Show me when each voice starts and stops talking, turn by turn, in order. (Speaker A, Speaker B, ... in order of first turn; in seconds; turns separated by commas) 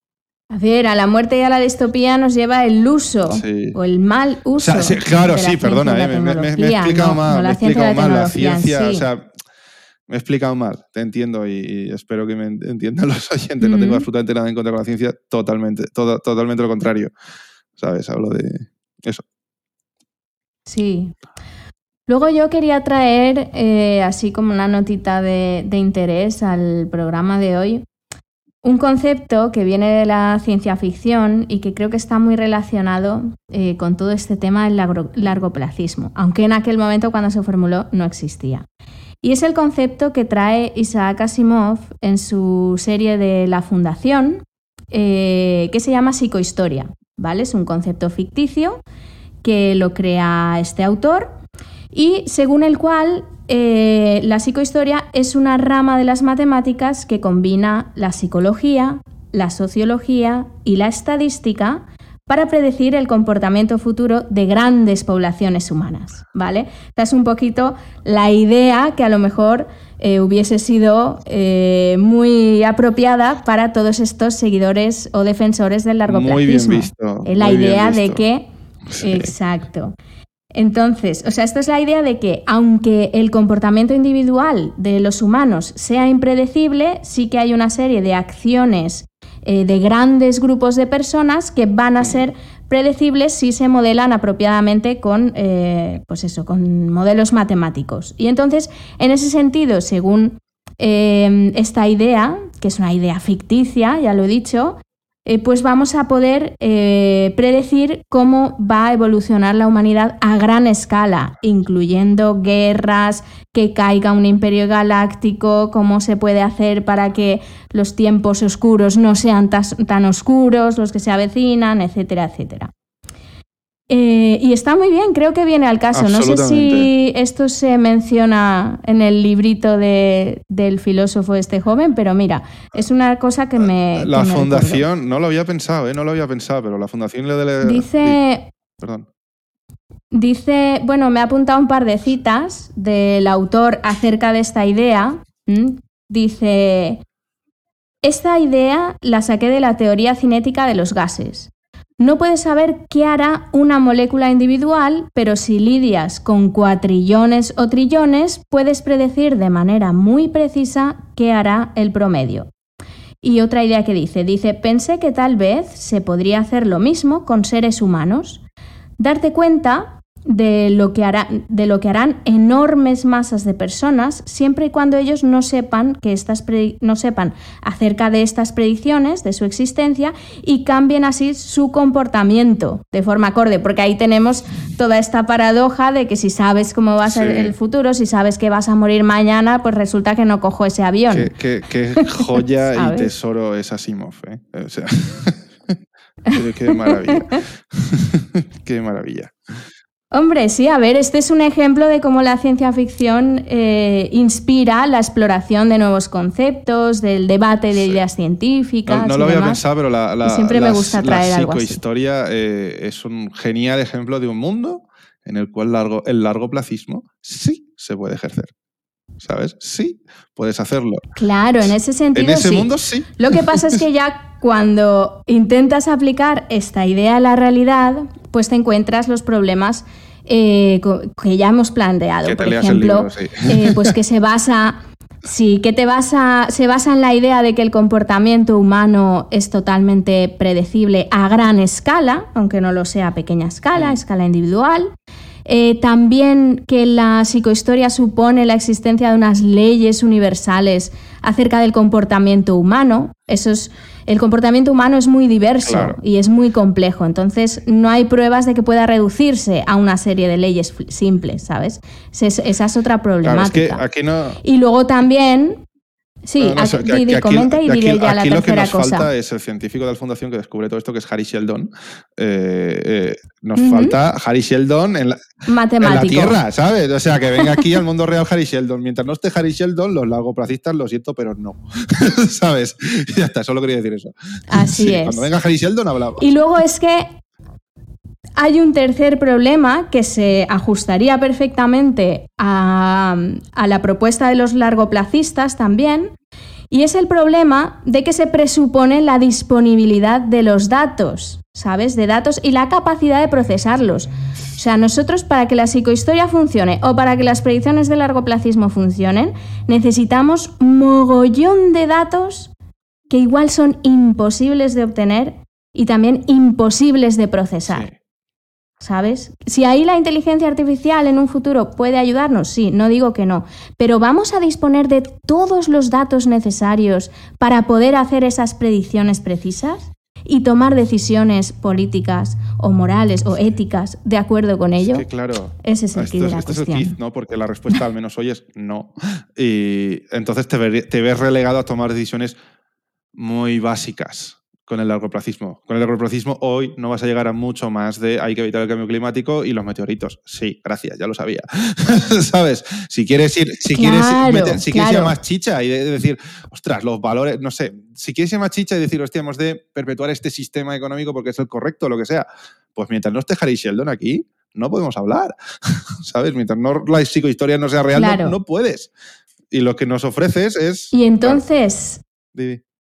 Speaker A: 0.5-9.1, Speaker B: 3.3-3.8, Speaker B: 4.6-9.3, Speaker B: 10.1-17.1, Speaker A: 13.6-14.1, Speaker B: 17.8-19.2, Speaker A: 20.7-21.2, Speaker A: 22.1-27.9, Speaker A: 28.6-38.7, Speaker A: 39.2-48.8, Speaker A: 49.4-51.4, Speaker A: 51.9-78.5, Speaker B: 76.1-78.2, Speaker B: 78.9-79.3, Speaker A: 79.0-80.0, Speaker A: 80.5-122.7, Speaker A: 123.9-134.9, Speaker B: 125.9-126.9, Speaker B: 133.6-138.2, Speaker A: 137.6-138.5, Speaker B: 138.8-139.1, Speaker A: 140.1-147.0, Speaker A: 148.0-162.5, Speaker A: 163.2-168.4, Speaker A: 169.0-191.3, Speaker B: 187.0-187.5, Speaker B: 191.1-195.8, Speaker A: 192.0-193.1, Speaker A: 196.3-197.4, Speaker B: 196.3-199.3, Speaker A: 200.1-209.6, Speaker B: 207.7-208.0, Speaker B: 208.9-218.5, Speaker A: 210.2-211.8, Speaker B: 219.2-221.1, Speaker A: 221.2-244.9, Speaker B: 222.2-223.8, Speaker B: 232.2-233.9, Speaker A: 245.5-263.8, Speaker B: 255.6-256.0, Speaker B: 263.2-264.4, Speaker A: 264.4-265.6, Speaker A: 266.3-269.1, Speaker B: 266.4-275.2, Speaker A: 273.6-274.0, Speaker A: 275.5-276.4, Speaker B: 275.8-286.2, Speaker A: 277.4-277.7, Speaker A: 284.5-285.3, Speaker A: 286.2-287.1, Speaker A: 288.4-296.1, Speaker A: 296.7-312.5, Speaker A: 313.1-317.9, Speaker B: 317.7-317.9, Speaker A: 318.8-335.1, Speaker B: 334.8-342.4, Speaker A: 335.6-337.0, Speaker B: 343.1-368.9, Speaker A: 353.7-355.2, Speaker A: 367.9-368.4, Speaker B: 369.5-371.4, Speaker A: 370.9-372.0, Speaker B: 372.3-372.6